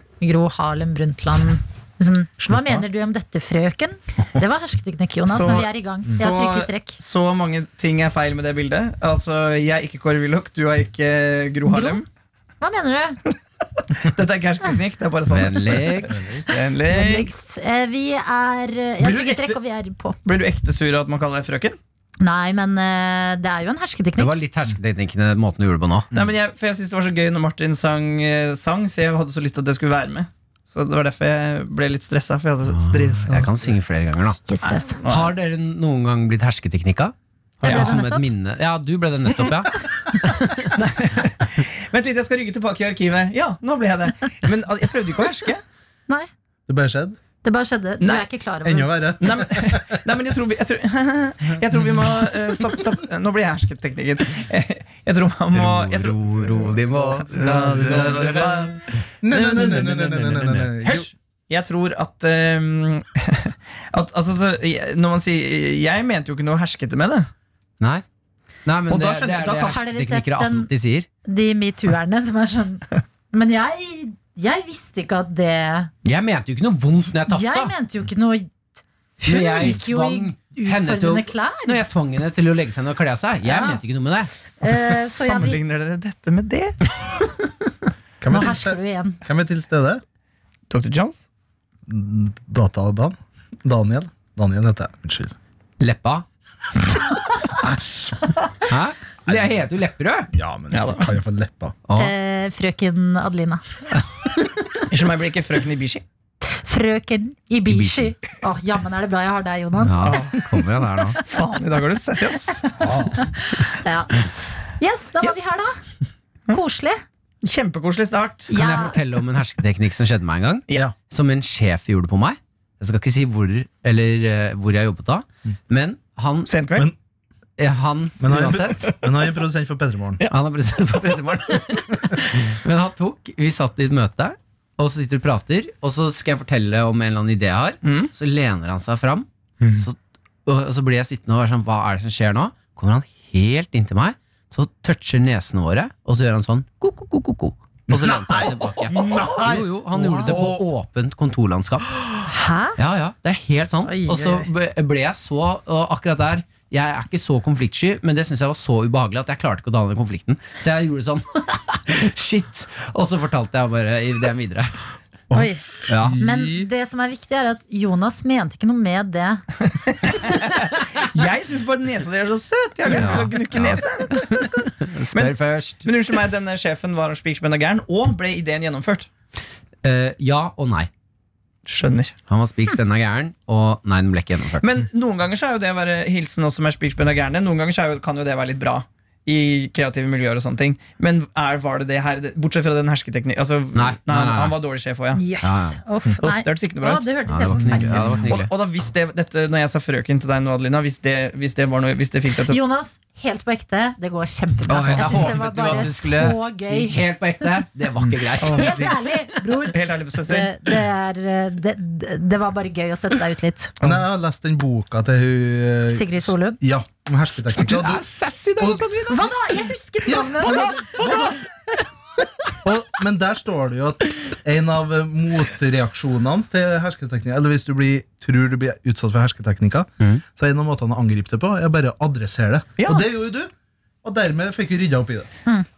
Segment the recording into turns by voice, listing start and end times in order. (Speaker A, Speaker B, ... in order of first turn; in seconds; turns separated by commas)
Speaker A: 0.2-7.0, Speaker B: 2.5-2.8, Speaker C: 5.3-12.1, Speaker A: 11.7-12.0, Speaker A: 12.6-13.2, Speaker C: 14.0-17.3, Speaker D: 15.3-16.4, Speaker B: 16.1-16.4, Speaker A: 16.9-20.2, Speaker C: 19.0-19.6, Speaker C: 20.2-21.8, Speaker A: 22.2-24.4, Speaker D: 24.2-26.1, Speaker C: 26.1-33.6, Speaker D: 32.7-34.4, Speaker A: 34.5-35.0, Speaker C: 34.7-35.3, Speaker D: 35.1-40.8, Speaker C: 37.6-37.9, Speaker A: 37.6-38.3, Speaker C: 40.8-45.6, Speaker B: 46.7-47.2, Speaker A: 47.4-49.2, Speaker C: 48.0-48.3, Speaker B: 48.6-50.0, Speaker C: 49.2-56.2, Speaker D: 55.5-58.7, Speaker B: 57.0-58.6, Speaker C: 57.3-58.8, Speaker B: 59.2-61.1, Speaker D: 59.3-61.1, Speaker C: 61.5-67.3, Speaker D: 68.7-71.1, Speaker C: 68.9-69.8, Speaker A: 69.7-70.7, Speaker A: 71.2-75.9, Speaker D: 76.0-77.7, Speaker A: 77.3-78.5, Speaker A: 79.2-81.8, Speaker D: 79.3-84.3, Speaker A: 83.5-83.8, Speaker A: 84.6-85.6, Speaker C: 85.1-86.8, Speaker B: 88.2-90.0, Speaker A: 88.3-89.2, Speaker C: 90.7-91.2, Speaker B: 91.9-95.3, Speaker D: 95.8-96.2, Speaker B: 97.5-98.3, Speaker D: 98.7-100.3, Speaker B: 99.3-99.6, Speaker B: 100.3-101.8, Speaker C: 100.7-101.2, Speaker D: 101.9-102.1, Speaker A: 102.0-103.6, Speaker C: 104.9-106.0, Speaker A: 106.5-110.2, Speaker D: 107.7-108.2, Speaker D: 109.8-111.2, Speaker C: 110.0-110.4, Speaker C: 111.2-112.8, Speaker B: 112.8-113.2, Speaker A: 113.5-114.1, Speaker A: 114.8-115.8, Speaker A: 116.5-117.0, Speaker C: 117.4-118.8, Speaker A: 118.5-119.0, Speaker D: 118.5-126.5, Speaker C: 126.5-126.9, Speaker D: 127.6-128.9, Speaker B: 128.2-130.2, Speaker C: 128.8-129.1, Speaker D: 130.3-152.0, Speaker C: 137.8-138.1, Speaker B: 139.6-139.9, Speaker B: 147.9-150.7, Speaker A: 152.3-152.8, Speaker D: 152.8-164.7, Speaker A: 153.8-154.5, Speaker B: 165.3-166.7, Speaker A: 165.3-169.4, Speaker D: 165.9-166.2, Speaker C: 169.8-174.3, Speaker D: 172.9-175.9, Speaker C: 175.1-179.1, Speaker D: 179.8-180.9, Speaker C: 181.7-182.2, Speaker D: 182.3-184.7, Speaker C: 184.6-195.2, Speaker D: 193.7-194.6, Speaker A: 195.2-198.2, Speaker D: 195.4-195.8, Speaker C: 196.2-197.1, Speaker D: 197.3-198.5, Speaker C: 197.8-202.6, Speaker A: 202.5-207.0, Speaker D: 204.7-209.7, Speaker B: 208.0-208.3, Speaker C: 208.4-208.9, Speaker A: 208.4-213.7, Speaker C: 209.7-210.5, Speaker B: 213.8-218.1, Speaker A: 215.9-216.6, Speaker C: 217.6-219.4, Speaker B: 218.6-219.3, Speaker A: 219.1-221.4, Speaker B: 220.0-221.4, Speaker C: 220.4-221.2, Speaker B: 222.6-233.5, Speaker C: 232.8-233.1, Speaker B: 234.0-235.3